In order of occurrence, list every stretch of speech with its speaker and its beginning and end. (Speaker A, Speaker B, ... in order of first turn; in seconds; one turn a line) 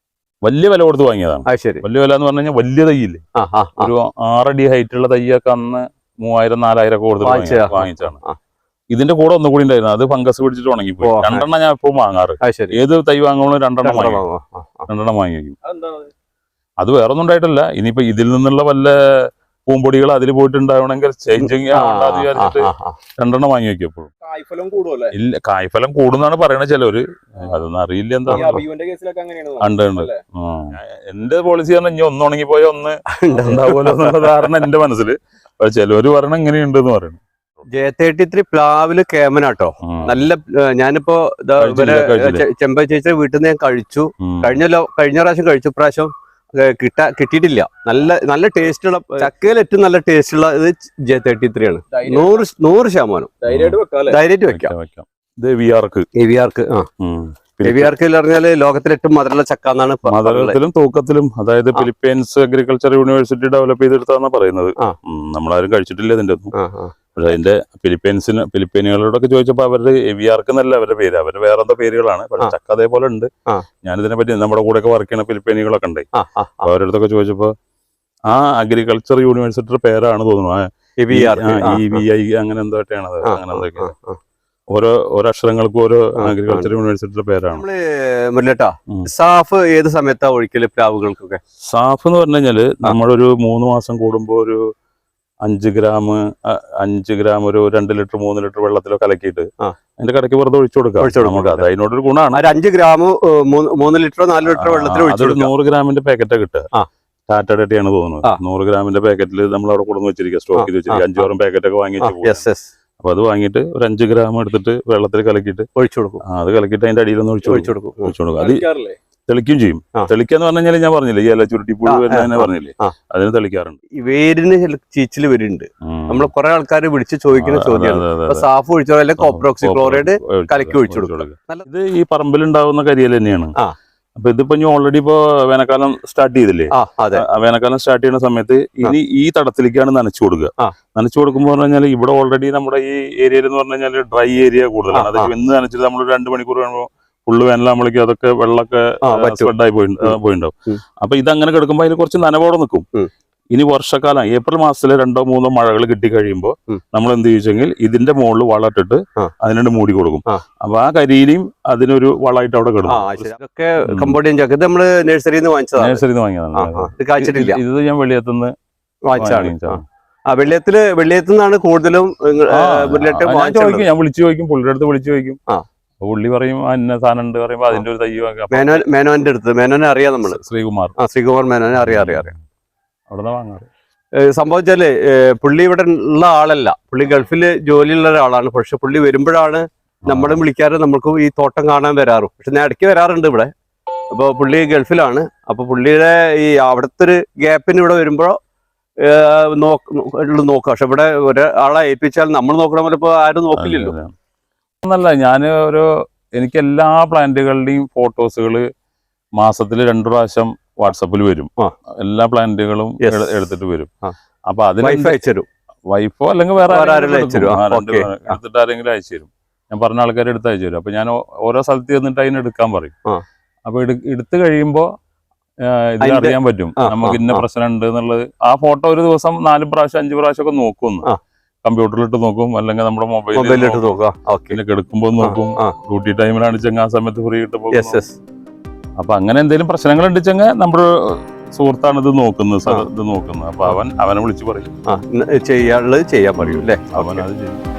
Speaker A: 0.4-3.2
Speaker B: 1.5-1.8
Speaker B: 3.4-3.9
Speaker A: 3.8-8.2
Speaker B: 7.2-8.4
Speaker A: 8.9-14.2
Speaker B: 11.0-11.5
Speaker B: 12.4-12.8
Speaker B: 13.8-14.9
Speaker A: 14.9-15.6
Speaker C: 15.7-16.1
Speaker A: 16.8-19.0
Speaker A: 19.7-24.1
Speaker B: 21.4-23.0
Speaker C: 24.3-25.1
Speaker A: 25.1-28.6
Speaker B: 28.3-28.6
Speaker C: 28.3-30.2
Speaker A: 29.6-37.6
Speaker B: 33.2-34.2
Speaker B: 37.7-53.3
Speaker A: 39.8-40.2
Speaker A: 41.6-42.5
Speaker A: 44.2-44.6
Speaker C: 51.9-52.4
Speaker C: 53.4-54.2
Speaker A: 53.5-53.8
Speaker B: 54.1-54.7
Speaker A: 54.5-56.1
Speaker B: 56.2-56.9
Speaker A: 57.0-58.0
Speaker B: 57.6-60.6
Speaker A: 60.1-66.5
Speaker B: 66.5-66.9
Speaker A: 67.2-73.3
Speaker A: 73.8-76.1
Speaker B: 76.2-76.7
Speaker A: 76.6-77.5
Speaker A: 78.3-83.9
Speaker B: 81.0-82.0
Speaker B: 83.2-84.2
Speaker A: 84.7-87.7
Speaker B: 86.2-86.7
Speaker B: 87.5-91.4
Speaker A: 91.7-94.6
Speaker A: 95.5-99.5
Speaker A: 100.0-102.4
Speaker B: 101.0-101.7
Speaker B: 102.3-105.5
Speaker A: 104.5-106.7
Speaker A: 107.3-112.4
Speaker B: 110.5-111.2
Speaker B: 112.0-112.7
Speaker A: 113.0-115.7
Speaker B: 115.8-116.2
Speaker A: 116.2-118.7
Speaker B: 117.5-118.1
Speaker C: 118.4-119.0
Speaker A: 119.3-123.8
Speaker B: 121.9-122.9
Speaker B: 124.0-131.7
Speaker A: 125.8-126.3
Speaker A: 127.3-128.5
Speaker A: 129.2-133.5
Speaker A: 134.2-152.9
Speaker B: 136.7-137.2
Speaker B: 144.9-145.3
Speaker B: 149.0-150.2
Speaker A: 153.5-163.3
Speaker B: 162.9-167.6
Speaker A: 163.8-164.2
Speaker A: 165.8-168.5
Speaker B: 169.1-173.9
Speaker A: 169.2-169.8
Speaker A: 172.5-175.4
Speaker A: 176.0-178.9
Speaker B: 178.5-180.4
Speaker A: 180.2-180.9
Speaker B: 181.0-182.3
Speaker A: 181.8-182.4
Speaker A: 183.1-183.7
Speaker B: 184.2-193.5
Speaker A: 190.1-190.4
Speaker B: 194.1-198.4
Speaker B: 199.0-204.0
Speaker A: 203.6-204.1
Speaker A: 204.8-208.7
Speaker A: 209.4-213.9
Speaker B: 213.0-213.5
Speaker A: 214.5-215.2
Speaker B: 214.8-215.5
Speaker A: 215.9-222.9
Speaker B: 216.7-218.4
Speaker A: 223.7-224.9
Speaker A: 225.7-231.1
Speaker B: 226.0-227.4
Speaker A: 231.6-233.9
Speaker B: 233.3-234.6
Speaker A: 234.5-238.0
Speaker B: 235.2-235.7
Speaker B: 237.7-238.2
Speaker A: 239.0-244.7
Speaker B: 244.9-247.2
Speaker A: 246.4-247.6